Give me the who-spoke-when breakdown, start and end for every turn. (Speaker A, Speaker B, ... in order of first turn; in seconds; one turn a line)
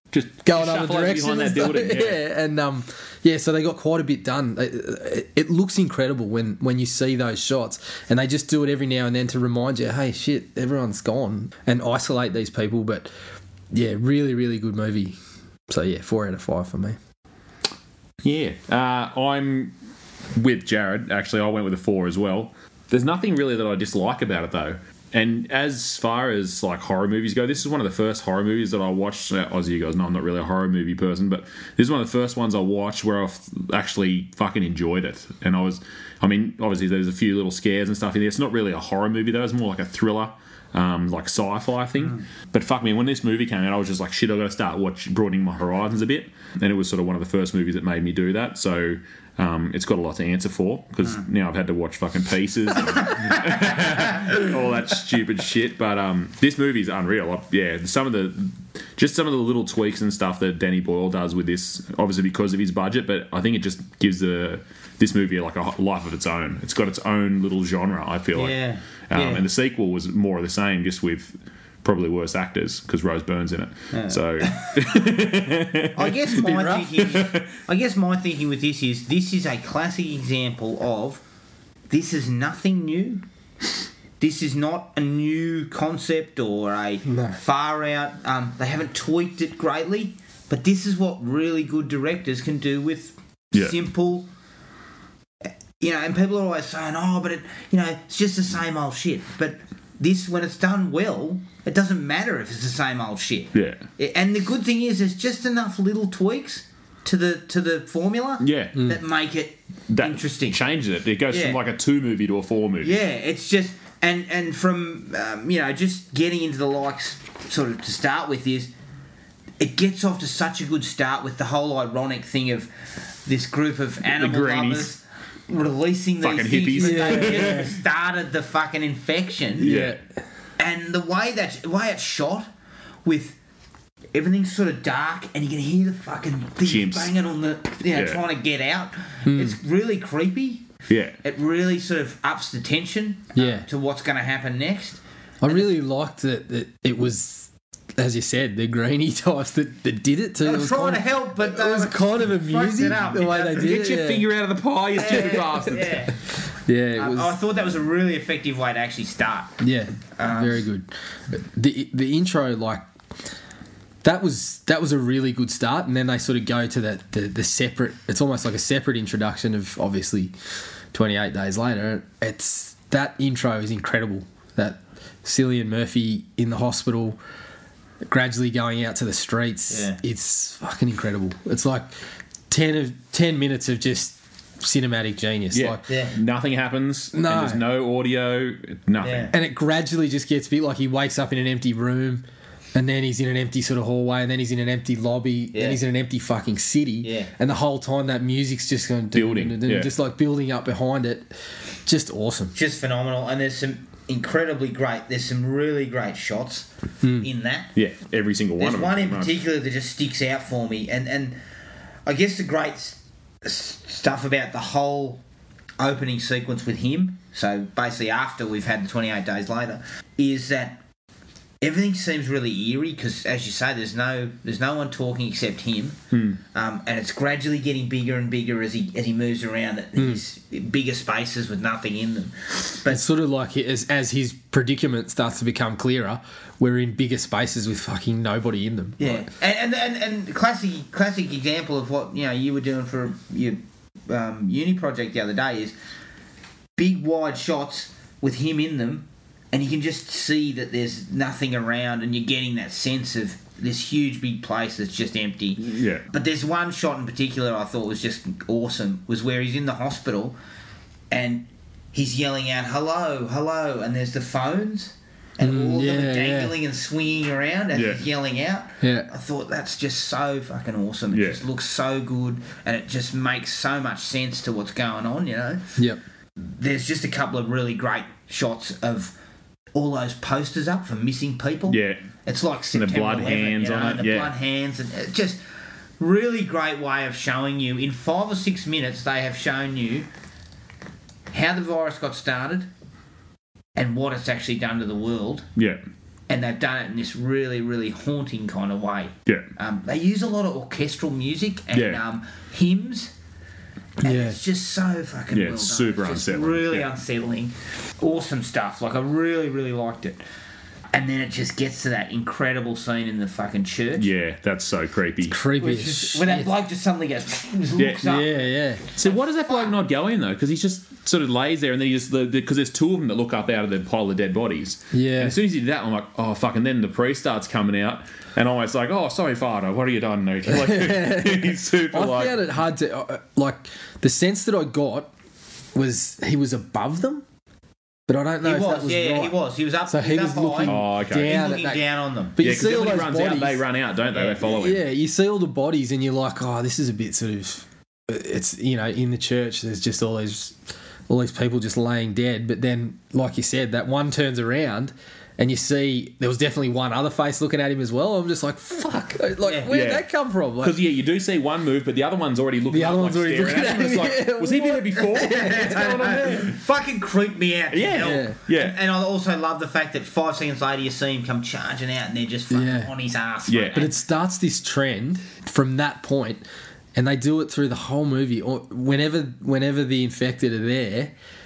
Speaker A: 0.1-2.2
Speaker B: 0.4-13.1
Speaker B: 13.7-17.0
Speaker A: 18.2-19.7
Speaker A: 20.3-76.1
Speaker C: 68.3-69.4
Speaker C: 73.9-74.8
Speaker C: 75.9-81.2
Speaker B: 76.3-77.0
Speaker A: 77.0-77.5
Speaker C: 81.9-83.2
Speaker C: 84.2-94.3
Speaker B: 87.0-87.4
Speaker C: 95.8-110.6
Speaker A: 103.5-103.8
Speaker A: 108.4-108.8
Speaker A: 109.9-112.9
Speaker C: 111.3-111.6
Speaker C: 112.8-118.7
Speaker C: 119.6-129.7
Speaker A: 124.2-124.9
Speaker A: 126.2-127.7
Speaker B: 126.8-127.7
Speaker B: 129.6-130.0
Speaker A: 129.6-129.9
Speaker C: 130.6-132.5
Speaker C: 133.0-133.4
Speaker C: 134.1-140.7
Speaker A: 136.6-137.1
Speaker A: 137.9-138.2
Speaker B: 139.2-139.6
Speaker A: 140.9-141.2
Speaker C: 141.2-145.7
Speaker B: 143.3-143.7
Speaker B: 145.4-154.2
Speaker C: 150.4-153.8
Speaker A: 153.5-155.9
Speaker C: 154.9-156.1
Speaker B: 156.7-157.4
Speaker C: 156.9-159.6
Speaker B: 159.6-162.8
Speaker C: 160.2-160.6
Speaker B: 164.0-170.3
Speaker B: 170.9-177.2
Speaker B: 178.0-181.9
Speaker C: 179.7-180.0
Speaker B: 182.5-185.8
Speaker A: 185.5-189.3
Speaker C: 185.9-186.1
Speaker B: 187.1-187.6
Speaker C: 189.0-189.3
Speaker B: 189.3-201.3
Speaker C: 195.5-195.8
Speaker C: 197.0-197.3
Speaker A: 199.1-199.9
Speaker B: 201.8-202.5
Speaker C: 202.5-206.7
Speaker B: 207.0-207.3
Speaker C: 207.2-207.7
Speaker A: 207.7-209.4
Speaker C: 208.6-211.4
Speaker C: 212.1-215.2
Speaker C: 215.8-220.8
Speaker C: 221.6-226.0
Speaker A: 226.1-226.4
Speaker C: 226.5-233.1
Speaker B: 229.9-230.2
Speaker B: 232.9-239.2
Speaker C: 239.0-245.7
Speaker C: 246.8-260.4
Speaker A: 255.6-256.0
Speaker C: 261.1-275.6
Speaker B: 265.4-266.5
Speaker A: 267.7-268.0
Speaker B: 268.8-269.1
Speaker A: 271.1-271.4
Speaker B: 275.8-276.0
Speaker C: 276.4-279.1
Speaker C: 279.7-285.4
Speaker A: 281.7-282.0
Speaker A: 282.7-284.3
Speaker C: 286.0-290.1
Speaker C: 291.3-292.7
Speaker C: 293.8-295.5
Speaker A: 295.6-295.8
Speaker C: 296.3-303.1
Speaker A: 301.7-302.0
Speaker C: 304.0-310.2
Speaker B: 304.0-304.4
Speaker A: 305.3-306.9
Speaker C: 310.9-314.1
Speaker A: 314.0-315.4
Speaker B: 315.2-316.5
Speaker C: 315.6-318.4
Speaker B: 318.0-318.8
Speaker A: 318.9-332.5
Speaker C: 319.0-319.7
Speaker B: 324.9-325.4
Speaker B: 330.5-335.1
Speaker B: 335.7-337.2
Speaker B: 338.1-343.6
Speaker C: 338.4-342.5
Speaker A: 340.6-341.4
Speaker A: 342.4-344.8
Speaker C: 344.1-344.4
Speaker B: 344.4-350.6
Speaker B: 351.1-360.8
Speaker C: 359.4-359.7
Speaker A: 359.7-366.6
Speaker B: 362.7-366.4
Speaker C: 365.1-373.9
Speaker A: 367.7-368.8
Speaker B: 368.0-368.4
Speaker B: 372.5-372.9
Speaker A: 373.5-373.8
Speaker B: 373.7-381.1